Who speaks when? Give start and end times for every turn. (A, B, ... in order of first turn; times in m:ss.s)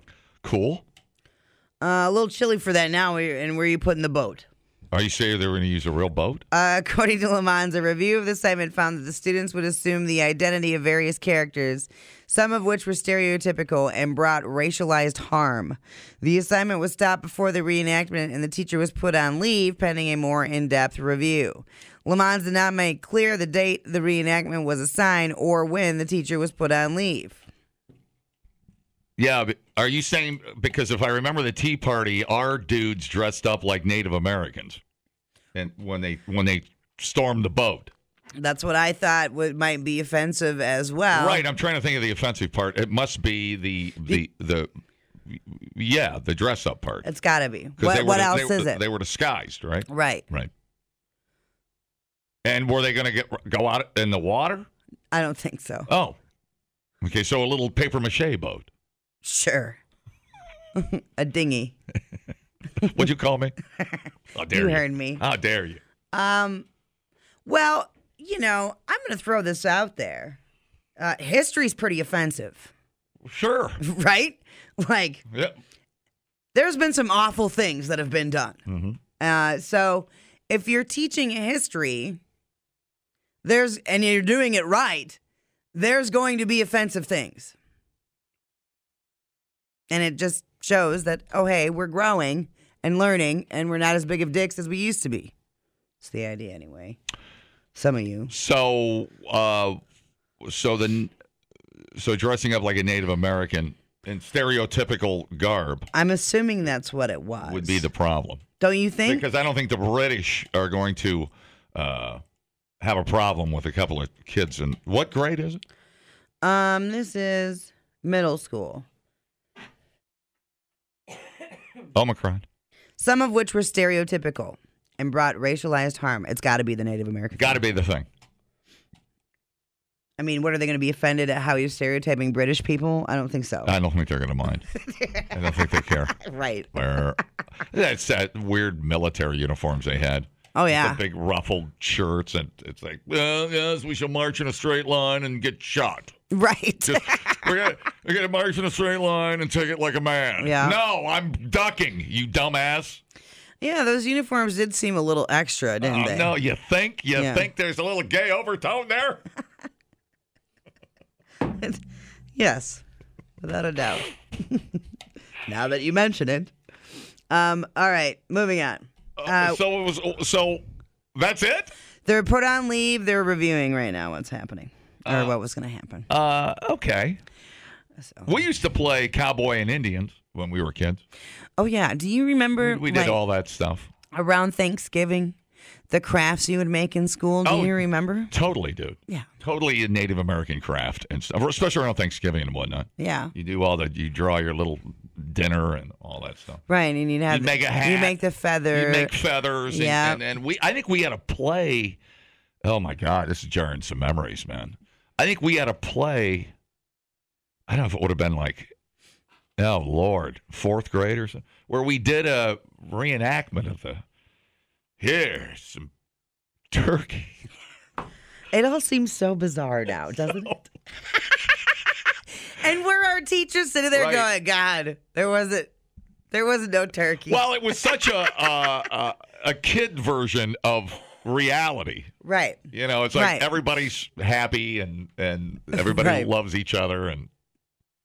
0:00.4-0:00.8 A
0:01.8-0:04.5 B
0:04.9-0:06.4 A
0:06.5-0:27.4 B
0:29.2-0:34.8 A
0:35.6-0:37.9 A
0:38.4-0:41.4 B
0:41.1-0:44.7 A
0:45.3-0:47.1 A
0:47.0-0:48.8 B
0:47.8-0:50.5 A
0:49.9-0:50.2 B
0:52.4-0:54.7 A
0:55.1-0:55.9 B
0:55.9-0:56.2 A
0:57.0-0:58.7 A
0:59.2-0:59.8 B
1:00.8-1:01.8 B
1:02.8-1:03.6 A
1:04.4-1:05.8 A
1:04.5-1:05.2 B
1:06.1-1:06.7 B
1:07.5-1:10.4 B
1:11.0-1:12.7 B
1:13.2-1:13.8 A
1:13.8-1:15.2 B
1:15.3-1:15.6 A
1:16.5-1:18.6 B
1:18.7-1:19.0 A
1:19.2-1:22.2 B
1:23.4-1:25.2 B
1:25.7-1:27.5 B
1:29.9-1:35.3 B
1:36.0-1:37.0 B
1:37.8-1:38.3 B
1:38.3-1:39.8 A
1:40.4-1:41.1 A
1:42.0-1:45.9 A
1:45.9-1:47.9 B
1:47.4-1:48.4 A
1:48.6-1:49.2 B
1:49.1-1:52.2 A
1:52.8-1:55.6 A
1:56.4-1:58.8 B
2:02.0-2:02.4 A
2:03.0-2:07.6 B
2:07.4-2:08.1 A
2:10.2-2:13.7 B
2:13.6-2:14.7 A
2:14.8-2:15.4 B
2:15.3-2:16.2 A
2:16.1-2:16.7 B
2:16.7-2:26.2 A
2:20.6-2:21.0 B
2:26.3-2:27.5 B
2:26.8-2:33.0 A
2:30.4-2:30.8 B
2:33.6-2:36.3 B
2:35.8-2:39.2 A
2:37.2-2:37.5 B
2:41.5-2:41.8 B
2:42.4-2:42.8 B
2:43.4-2:44.8 B
2:45.5-2:46.5 B
2:47.3-2:49.6 B
2:49.2-2:50.6 A
2:51.2-2:51.7 A
2:52.1-2:56.1 B
2:55.1-2:55.3 A
2:56.1-2:57.2 A
2:58.0-2:58.3 B
2:58.3-3:01.0 A
3:01.6-3:03.2 B
3:02.6-3:03.9 A
3:04.1-3:05.4 B
3:05.9-3:08.3 B
3:07.4-3:07.8 A
3:08.3-3:16.6 A
3:13.0-3:13.3 B
3:16.7-3:19.1 B
3:17.3-3:18.2 A
3:18.7-3:22.0 A
3:19.7-3:20.2 B
3:22.6-3:26.5 A
3:27.7-3:28.7 A
3:29.6-3:34.0 A
3:35.0-3:35.9 A
3:36.7-3:37.3 A
3:38.5-3:40.6 B
3:42.5-3:45.7 B
3:43.9-3:44.3 A
3:46.3-3:47.4 B
3:47.3-3:52.1 A
3:52.2-3:52.6 B
3:52.7-3:57.3 A
3:53.1-3:53.5 B
3:55.7-3:56.3 B